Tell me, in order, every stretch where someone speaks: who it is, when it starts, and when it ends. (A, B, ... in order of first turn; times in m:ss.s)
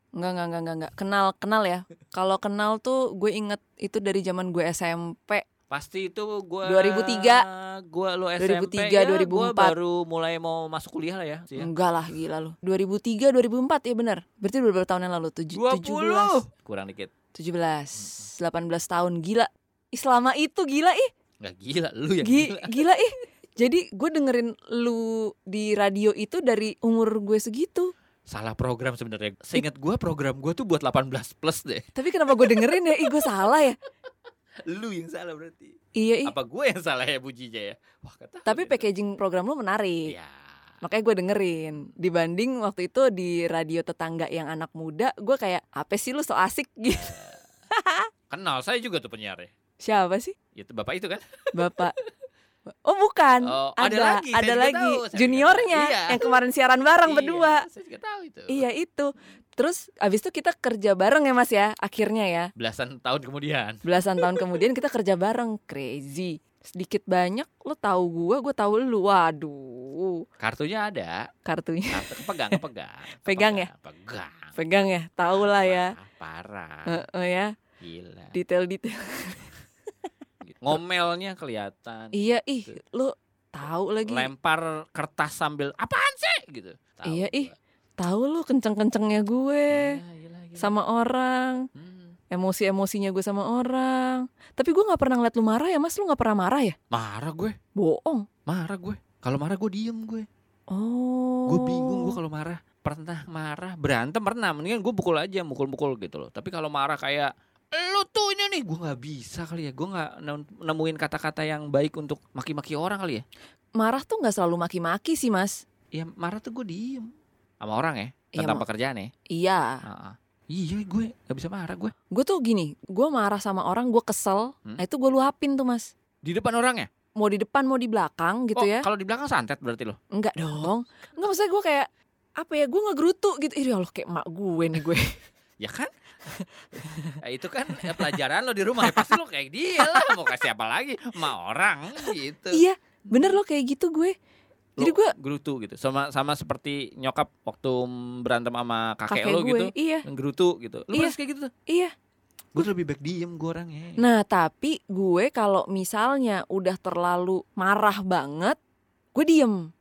0:00.2-0:05.4 A
0:05.7-0:11.7 B
0:06.6-0:07.4 A
0:08.4-0:09.7 A
0:11.6-0:16.4 A
0:15.5-0:17.1 B
0:17.3-0:21.1 A
0:18.0-0:18.3 B
0:21.4-0:22.8 B
0:22.2-0:27.9 A
0:28.3-0:33.3 B
0:31.9-0:33.8 A
0:34.7-0:35.7 B
0:36.0-0:36.3 A
0:36.2-0:38.8 B
0:38.4-0:40.1 A
0:40.1-0:40.4 B
0:40.8-0:47.2 A
0:46.9-0:47.4 B
0:47.7-0:48.1 A
0:48.3-0:49.5 B
0:49.8-0:50.3 A
0:50.5-0:52.1 B
0:51.5-0:51.9 A
0:52.7-0:57.6 A
0:53.4-0:56.4 B
0:57.0-0:58.6 B
0:58.5-1:02.5 A
1:02.6-1:04.6 B
1:03.8-1:10.2 A
1:10.4-1:11.3 B
1:11.4-1:12.6 A
1:11.9-1:14.6 B
1:13.2-1:13.7 A
1:14.6-1:15.9 A
1:15.3-1:17.0 B
1:16.8-1:17.5 A
1:17.8-1:18.3 B
1:18.3-1:19.5 A
1:20.4-1:22.7 B
1:22.1-1:24.3 A
1:24.0-1:27.5 B
1:27.0-1:30.0 A
1:29.7-1:30.7 B
1:30.6-1:31.6 A
1:31.7-1:32.2 B
1:32.3-1:36.7 A
1:36.9-1:37.6 B
1:37.8-1:38.3 A
1:38.5-1:40.3 B
1:40.7-1:42.2 A
1:41.5-1:53.2 B
1:53.8-1:55.6 A
1:55.9-1:57.1 B
1:57.6-1:59.1 B
1:58.3-1:58.6 A
1:59.3-1:59.8 A
1:59.8-2:01.9 B
2:02.1-2:05.9 A
2:06.2-2:06.9 B
2:07.2-2:08.9 A
2:08.6-2:10.0 B
2:10.1-2:15.1 A
2:15.6-2:15.9 B
2:16.8-2:17.2 A
2:16.8-2:23.4 B
2:17.8-2:18.1 A
2:18.8-2:19.2 A
2:19.8-2:20.2 A
2:22.0-2:24.1 A
2:24.8-2:31.5 B
2:24.8-2:25.1 A
2:29.1-2:30.0 A
2:31.7-2:31.9 A
2:32.5-2:34.0 B
2:34.0-2:38.6 A
2:39.1-2:39.7 A